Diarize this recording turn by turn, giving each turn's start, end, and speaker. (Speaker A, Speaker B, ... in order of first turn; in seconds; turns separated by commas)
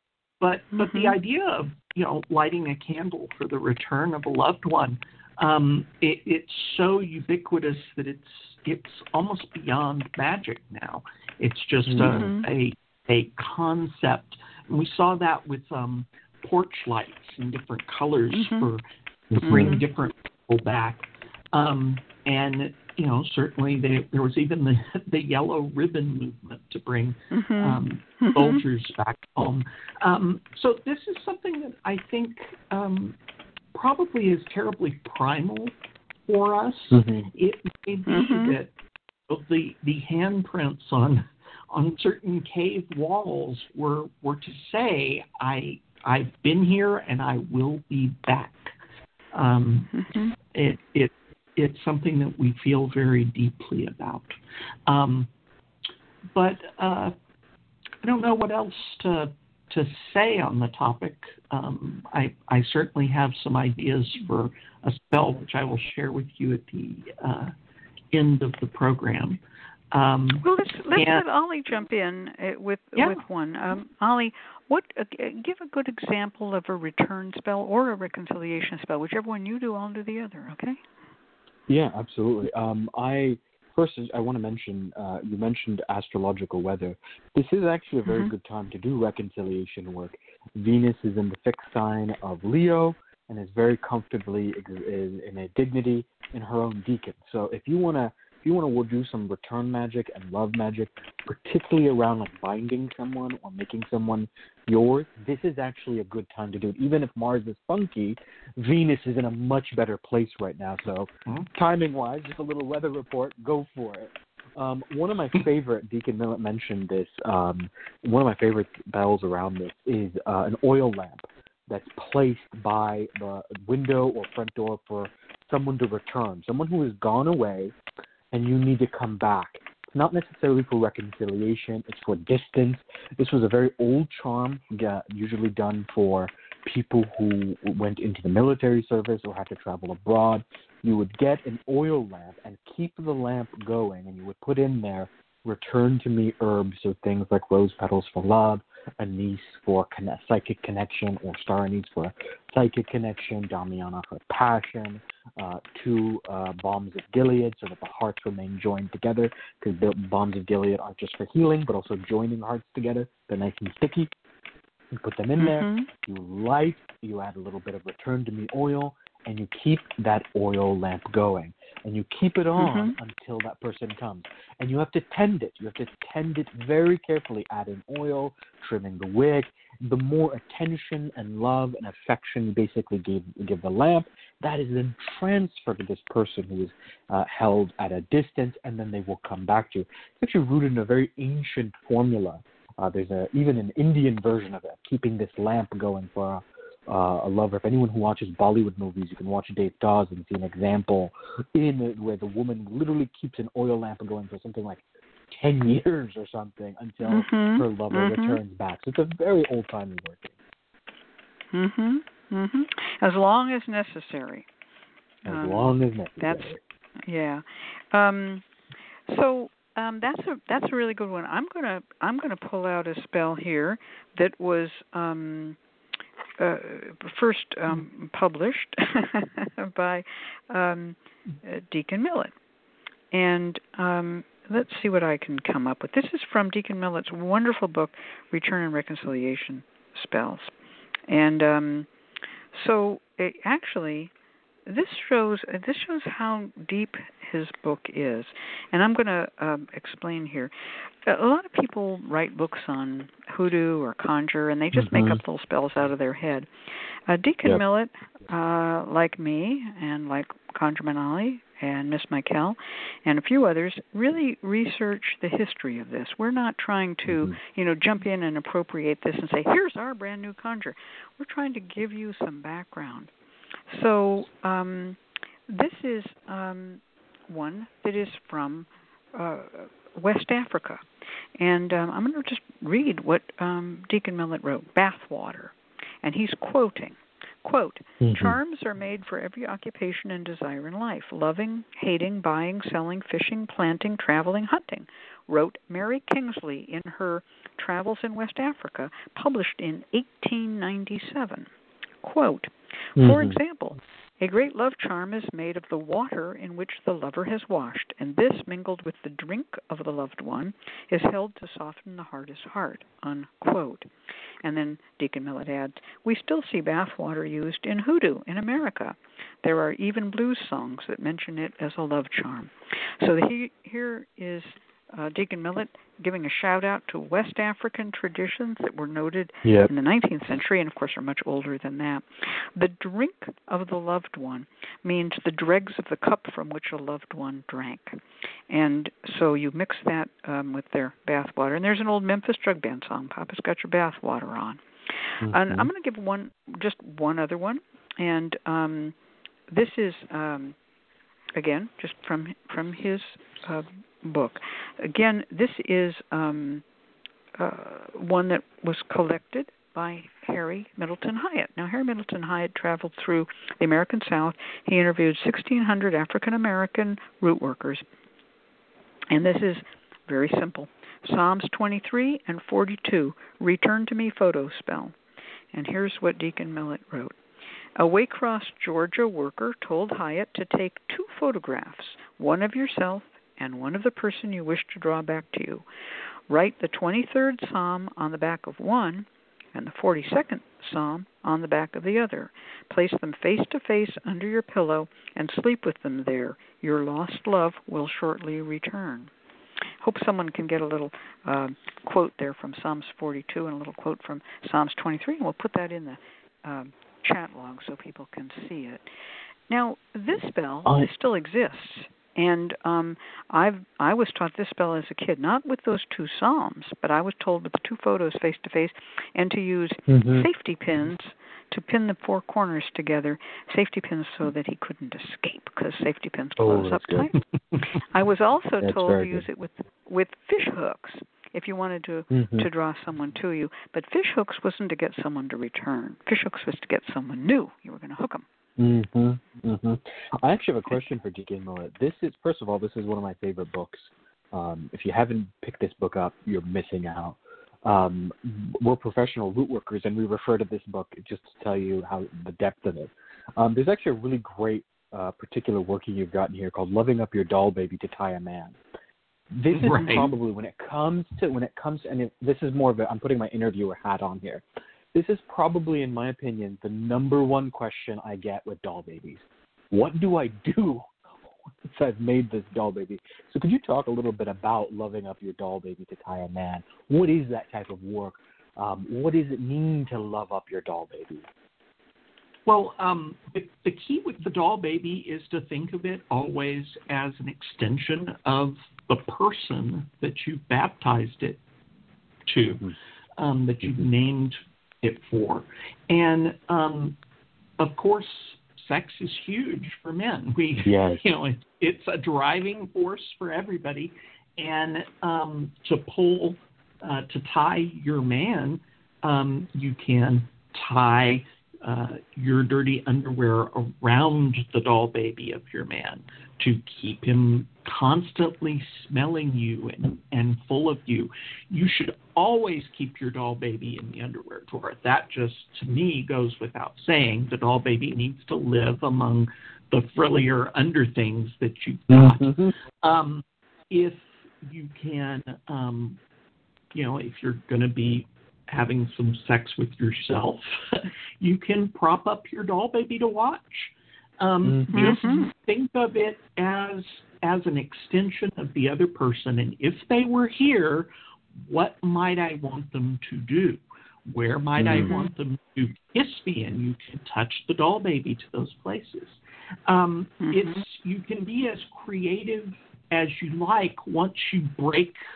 Speaker A: 0.4-33.1, Speaker B: 0.7-1.1, Speaker C: 11.9-12.3, Speaker B: 12.0-12.5, Speaker B: 18.3-18.7, Speaker C: 19.3-19.8, Speaker B: 19.4-19.8, Speaker B: 27.3-28.6, Speaker A: 33.7-35.7, Speaker A: 36.3-38.7, Speaker C: 36.9-37.3, Speaker B: 38.1-38.5, Speaker A: 39.3-48.7, Speaker A: 49.3-54.3, Speaker B: 49.9-50.3, Speaker A: 54.9-55.3, Speaker A: 56.3-57.1, Speaker A: 58.0-67.5, Speaker A: 68.1-69.4, Speaker A: 69.9-71.2, Speaker B: 70.4-80.8, Speaker C: 81.7-127.7, Speaker B: 88.0-88.3, Speaker C: 128.3-164.1, Speaker C: 164.9-210.3, Speaker B: 165.4-165.9, Speaker B: 172.6-172.9, Speaker B: 207.0-208.4, Speaker B: 211.5-214.5, Speaker C: 215.2-216.6, Speaker B: 215.3-216.5, Speaker B: 217.1-218.4, Speaker B: 219.1-225.6, Speaker B: 226.4-232.3, Speaker B: 233.1-240.5, Speaker B: 241.1-241.9, Speaker B: 242.5-244.1, Speaker B: 244.7-256.5, Speaker C: 254.7-255.2, Speaker B: 257.1-273.1, Speaker C: 267.1-267.4, Speaker B: 273.7-280.8, Speaker B: 281.4-301.5, Speaker C: 288.0-288.4, Speaker B: 302.0-313.9, Speaker C: 303.0-303.4, Speaker B: 314.4-348.9, Speaker C: 329.4-329.7, Speaker C: 345.2-345.7, Speaker B: 349.5-350.6, Speaker B: 351.3-356.6, Speaker B: 357.4-367.8, Speaker B: 369.1-374.9, Speaker B: 375.5-377.1, Speaker B: 377.8-385.6, Speaker B: 386.3-399.1, Speaker B: 399.8-408.8, Speaker B: 409.5-427.1, Speaker C: 419.9-420.3, Speaker C: 426.4-427.1, Speaker B: 427.9-438.2, Speaker C: 428.6-429.2, Speaker C: 432.1-432.5, Speaker C: 438.6-458.6, Speaker C: 459.3-470.9, Speaker A: 459.5-460.1, Speaker C: 471.6-481.3, Speaker A: 482.4-491.4, Speaker A: 492.3-497.0, Speaker A: 497.6-536.0, Speaker C: 500.6-501.0, Speaker C: 531.9-532.5, Speaker A: 536.7-565.0, Speaker B: 544.7-545.3, Speaker C: 554.6-554.9, Speaker B: 554.7-555.1, Speaker B: 560.2-560.6